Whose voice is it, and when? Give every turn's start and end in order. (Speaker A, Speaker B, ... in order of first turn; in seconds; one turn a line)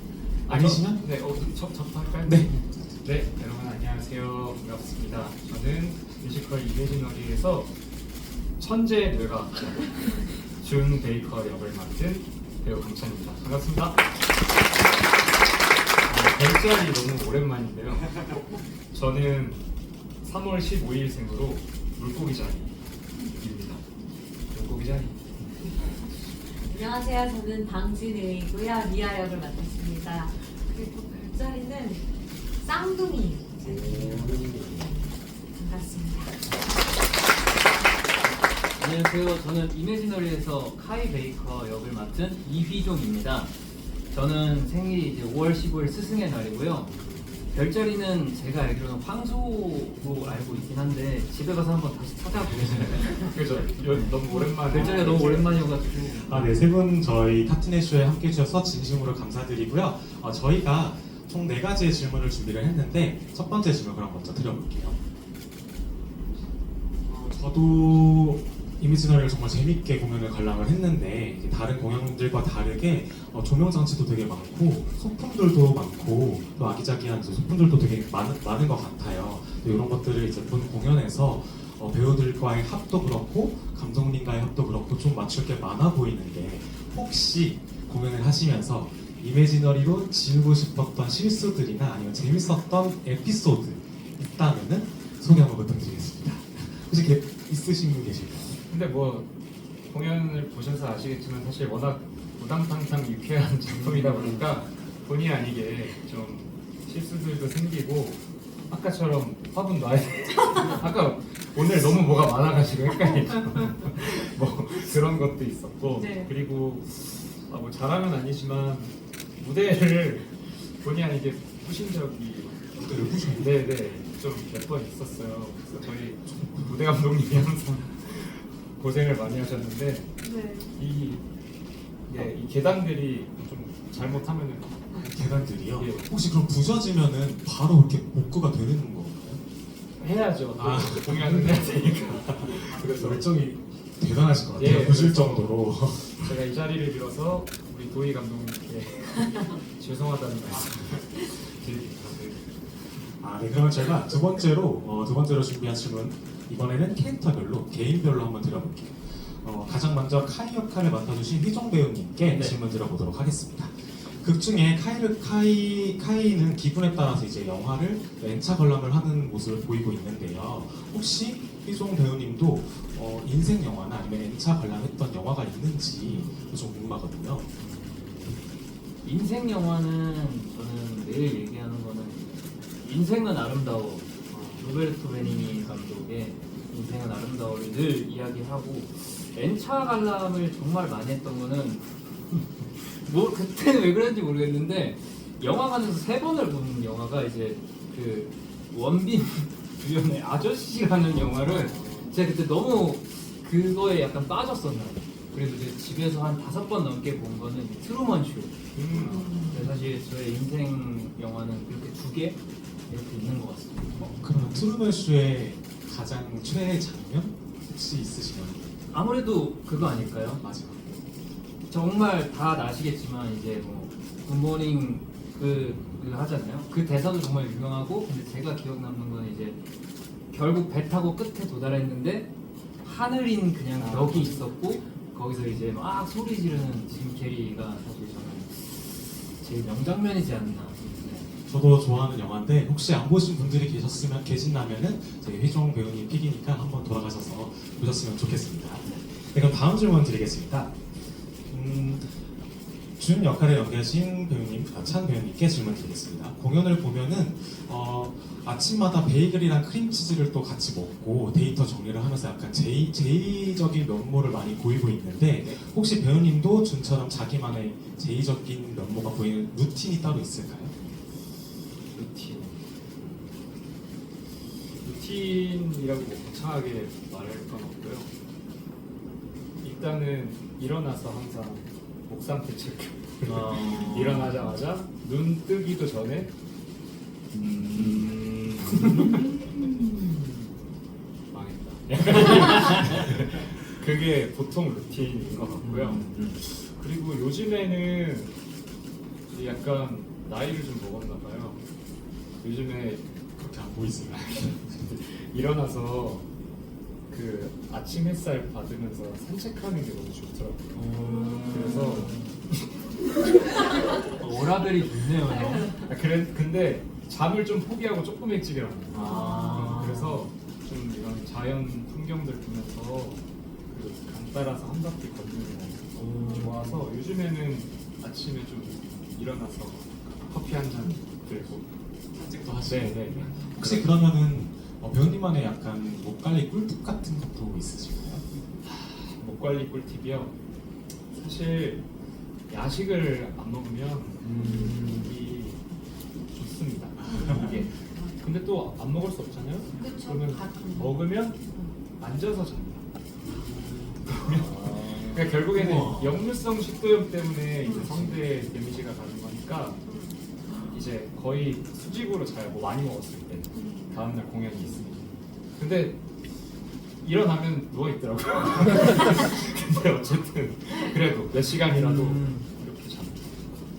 Speaker A: 0.5-7.7
Speaker B: 0.5-1.0
Speaker B: 2.2-3.0
Speaker A: 8.6-14.0
Speaker A: 16.1-19.6
Speaker A: 20.2-23.8
Speaker A: 24.5-25.3
Speaker C: 26.6-32.1
Speaker C: 32.6-36.4
Speaker A: 33.7-34.8
Speaker D: 38.8-43.5
Speaker D: 44.1-46.9
Speaker D: 47.5-53.4
Speaker A: 52.9-55.7
Speaker D: 53.9-56.7
Speaker B: 54.8-55.1
Speaker B: 56.1-65.0
Speaker B: 67.1-98.6
Speaker A: 98.7-99.3
Speaker A: 99.9-122.7
Speaker D: 103.8-104.5
Speaker C: 116.0-116.3
Speaker B: 122.8-123.6
Speaker A: 123.3-130.2
Speaker B: 126.2-126.7
Speaker C: 130.2-130.7
Speaker A: 130.7-131.2
Speaker A: 132.1-135.1
Speaker B: 134.9-139.4
Speaker A: 135.7-136.1
Speaker A: 140.0-143.2
Speaker B: 140.6-146.3
Speaker A: 144.5-152.6
Speaker B: 152.9-177.5
Speaker D: 162.3-162.6
Speaker D: 177.6-178.4
Speaker D: 179.0-214.2
Speaker A: 184.3-184.7
Speaker A: 201.2-202.1
Speaker A: 208.7-209.4
Speaker C: 208.9-209.7
Speaker B: 214.0-218.7
Speaker D: 218.9-220.4
Speaker B: 220.4-221.0
Speaker D: 221.7-229.6
Speaker D: 230.3-232.3
Speaker D: 232.8-241.3
Speaker A: 233.8-234.7
Speaker B: 241.4-250.8
Speaker B: 251.5-252.2
Speaker B: 253.0-270.7
Speaker A: 271.9-272.6
Speaker A: 274.8-278.1
Speaker A: 279.6-286.3
Speaker D: 283.2-284.5
Speaker D: 287.3-290.5
Speaker A: 287.7-289.4
Speaker A: 291.3-298.3
Speaker D: 295.6-296.4
Speaker A: 299.3-301.6
Speaker A: 302.4-303.1
Speaker B: 303.4-304.5
Speaker A: 304.1-306.2
Speaker A: 307.1-310.8
Speaker D: 310.7-312.4
Speaker C: 311.2-311.6
Speaker A: 311.4-312.6
Speaker D: 314.2-315.8
Speaker A: 315.7-331.7
Speaker D: 318.9-320.2
Speaker C: 318.9-319.9
Speaker D: 325.9-326.8
Speaker C: 326.2-326.5
Speaker B: 332.1-338.2
Speaker A: 332.6-334.1
Speaker A: 338.6-340.3
Speaker A: 341.1-341.8
Speaker A: 342.5-345.6
Speaker D: 344.2-345.1
Speaker C: 344.4-344.8
Speaker A: 346.3-351.4
Speaker B: 347.0-347.6
Speaker C: 347.1-348.1
Speaker C: 349.8-351.7
Speaker A: 352.0-352.8
Speaker B: 353.2-354.1
Speaker A: 354.1-359.8
Speaker D: 354.3-355.3
Speaker B: 355.3-356.2
Speaker C: 357.6-357.9
Speaker C: 359.9-360.8
Speaker A: 360.7-366.0
Speaker C: 363.5-364.0
Speaker A: 367.0-373.6
Speaker D: 371.6-372.5